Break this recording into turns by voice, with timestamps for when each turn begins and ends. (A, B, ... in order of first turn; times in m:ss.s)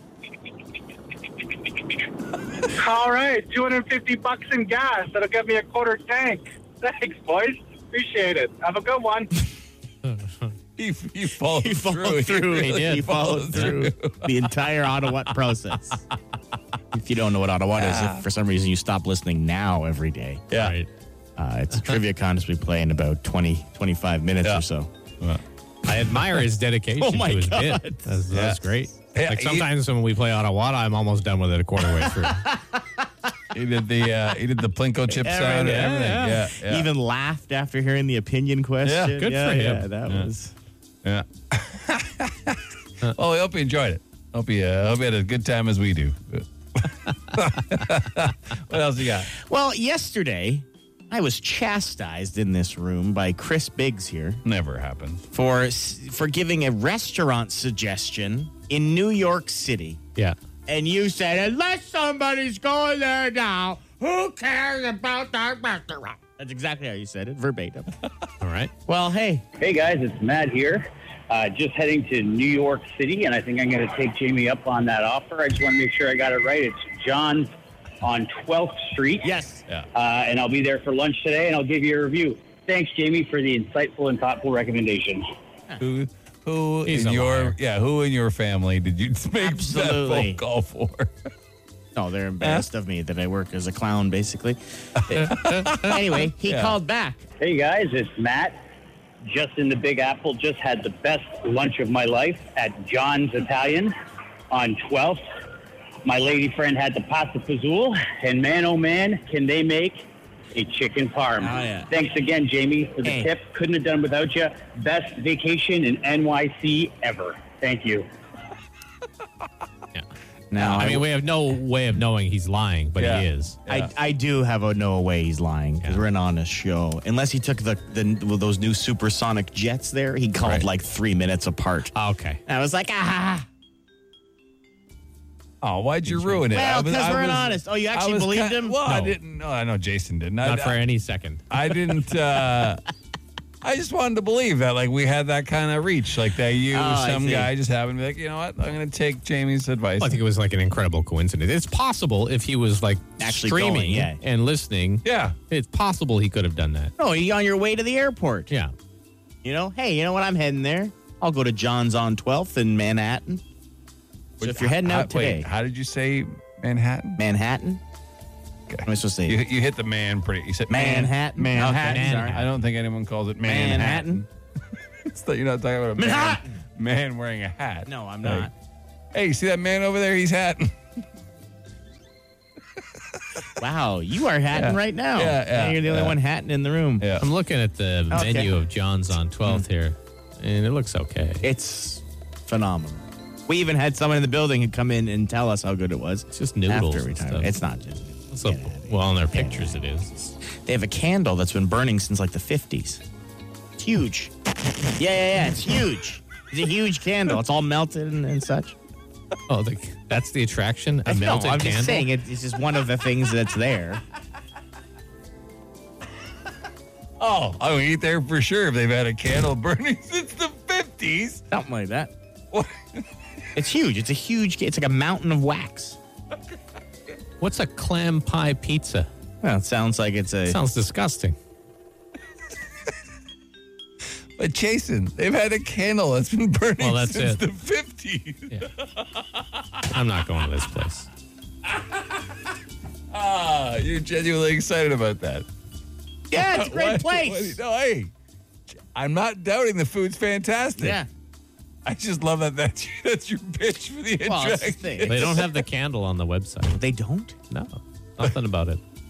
0:02.7-0:09.3 A
0:10.0-0:10.5 B
0:10.8-0:14.4 C
0:11.5-0:16.0 D
0:12.7-0:13.7 B
0:16.9-0:20.4 D
0:17.8-0:18.2 C
0:20.5-0:20.9 B
0:21.4-0:24.9 D
0:25.8-0:32.4 B
0:27.0-0:28.1 D
0:28.3-0:28.6 C
0:29.1-0:29.7 C
0:32.0-0:33.0 D
0:33.5-0:36.9 C
0:35.1-0:40.5 D
0:35.7-0:36.3 B
0:38.8-0:39.2 C
0:39.2-0:39.8 B
0:41.0-0:49.3 C
0:49.3-0:54.4 D
0:54.4-0:55.2 C
0:55.3-1:00.0 D
1:00.7-1:07.9 D
1:08.4-1:08.7 B
1:08.8-1:09.4 D
1:09.6-1:19.3 E
1:19.2-1:19.6 D
1:19.9-1:25.2 E
1:25.8-1:31.1 C
1:26.8-1:27.6 B
1:29.4-1:30.4 D
1:31.9-1:37.3 D
1:35.1-1:36.8 C
1:37.4-1:38.6 E
1:39.2-1:43.9 E
1:44.5-1:45.2 E
1:46.0-1:58.1 E
1:51.4-1:51.9 D
1:53.0-1:53.3 D
2:00.5-2:01.1 D
2:00.6-2:00.9 C
2:00.6-2:03.6 B
2:03.0-2:03.9 C
2:03.7-2:11.9 D
2:10.4-2:10.7 C
2:11.9-2:12.4 B
2:12.4-2:13.5 D
2:15.6-2:20.8 C
2:16.1-2:16.4 B
2:16.5-2:18.8 D
2:18.8-2:19.1 B
2:20.4-2:21.4 B
2:21.5-2:22.8 C
2:23.6-2:30.2 C
2:26.7-2:27.5 D
2:30.0-2:36.9 B
2:33.2-2:34.2 D
2:35.0-2:35.4 C
2:37.0-2:38.5 D
2:39.4-2:43.4 D
2:44.4-2:47.2 C
2:44.4-2:45.5 D
2:47.2-2:47.8 D
2:48.7-2:54.3 C
2:48.8-2:49.4 D
2:50.7-2:52.4 D
2:51.8-2:52.4 B
2:53.4-2:54.2 D
2:55.0-2:58.5 C
2:56.0-2:56.6 D
2:57.8-2:58.5 D
2:59.1-3:00.7 C
3:03.6-3:07.1 D
3:04.5-3:06.2 C
3:07.0-3:07.2 C
3:07.2-3:11.4 B
3:08.1-3:08.5 D
3:11.4-3:19.8 D
3:16.3-3:17.5 B
3:18.3-3:20.3 B
3:20.4-3:23.0 D
3:23.8-3:24.3 D
3:24.9-3:28.8 D
3:29.5-3:32.1 B
3:31.0-3:34.0 D
3:37.2-3:41.4 C
3:41.5-3:42.1 D
3:42.5-3:43.0 C
3:43.5-3:46.0 D
3:47.4-3:49.1 B
3:49.4-3:50.6 D
3:50.5-3:51.4 B
3:54.4-3:59.4 C
3:56.8-3:57.4 B
3:59.9-4:01.1 B
4:01.7-4:02.2 C
4:03.1-4:05.4 C
4:06.3-4:07.6 D
4:06.3-4:08.1 C
4:08.9-4:11.0 C
4:10.8-4:11.1 D
4:11.8-4:15.6 C
4:14.2-4:15.4 D
4:15.1-4:16.8 B
4:16.7-4:17.4 D
4:17.5-4:18.8 B